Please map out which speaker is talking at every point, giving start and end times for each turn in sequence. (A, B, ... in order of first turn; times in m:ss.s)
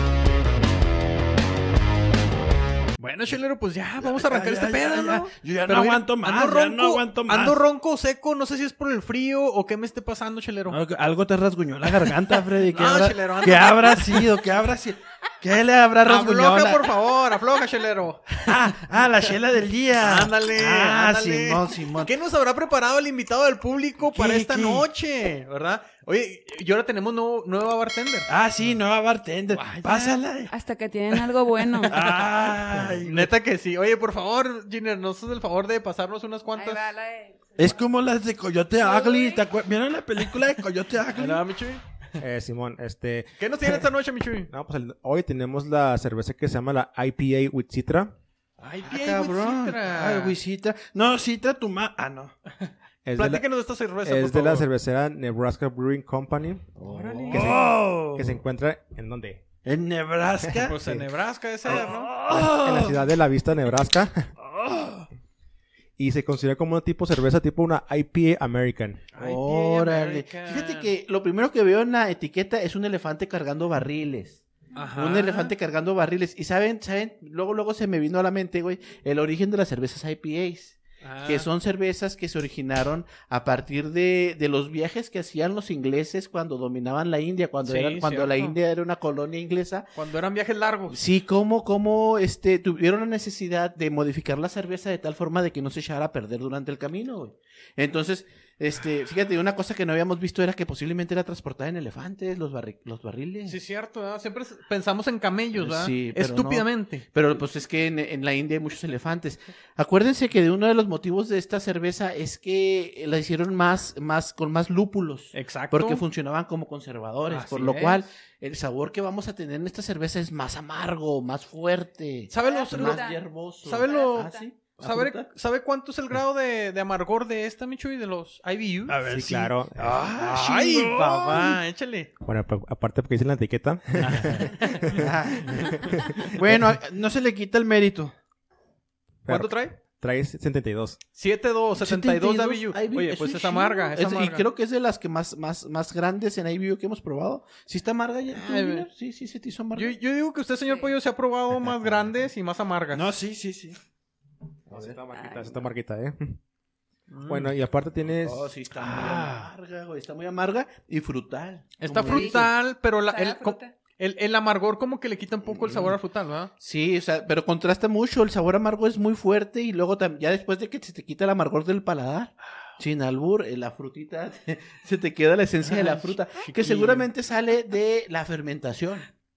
0:03.0-0:10.8 A
0:04.0-0:07.6 B
0:10.7-0:16.8 B
0:11.9-0:14.4 A
0:16.0-0:18.8 A
0:18.5-0:22.1 B
0:20.0-0:28.3 A
0:21.6-0:22.1 C
0:24.1-0:24.9 B
0:28.3-0:30.5 B
0:29.5-0:30.2 A
0:30.5-0:31.9 D
0:31.9-0:36.9 A
0:31.9-0:33.3 B
0:32.7-0:33.0 E
0:36.6-0:37.8 D
0:37.6-0:41.4 B
0:38.8-0:39.4 D
0:41.1-0:42.2 A
0:42.2-0:43.9 E
0:43.4-0:44.5 A
0:44.5-0:48.1 E
0:48.6-0:50.4 A
0:48.8-0:52.3 B
0:52.6-0:54.7 A
0:53.0-0:53.4 E
0:54.0-0:56.7 E
0:56.8-0:57.7 A
0:56.9-0:58.4 B
0:57.3-0:59.5 E
0:59.6-1:00.8 B
1:00.4-1:01.0 E
1:00.6-1:02.1 A
1:01.7-1:03.0 B
1:02.3-1:04.3 E
1:04.4-1:05.1 B
1:06.0-1:09.1 E
1:09.1-1:10.9 A
1:09.2-1:14.4 C
1:14.8-1:15.5 A
1:15.0-1:29.9 C
1:21.0-1:21.5 A
1:27.6-1:28.6 A
1:30.0-1:31.0 A
1:30.9-1:43.6 C
1:43.5-1:47.0 A
1:45.6-2:05.3 C
1:55.3-1:56.0 A
1:57.3-1:58.0 A
2:02.3-2:09.0 A
2:02.4-2:03.2 D
2:03.8-2:04.5 D
2:08.9-2:11.6 B
2:09.1-2:10.0 E
2:10.1-2:12.1 A
2:12.2-2:16.3 E
2:14.0-2:15.0 A
2:14.9-2:15.9 C
2:16.3-2:18.1 B
2:19.3-2:21.0 E
2:19.3-2:19.8 A
2:21.2-2:24.5 A
2:21.8-2:30.0 C
2:28.3-2:28.9 A
2:29.7-2:33.1 A
2:30.7-2:30.9 D
2:31.6-2:32.1 C
2:32.9-2:33.8 B
2:34.7-2:35.0 C
2:34.7-2:36.4 E
2:35.2-2:35.6 D
2:37.1-2:37.5 A
2:37.3-2:38.5 E
2:38.2-2:42.5 C
2:38.8-2:39.5 B
2:41.8-2:46.5 A
2:42.0-2:42.5 D
2:43.1-2:43.7 D
2:45.5-2:46.0 C
2:46.6-2:59.1 C
2:55.6-2:57.1 A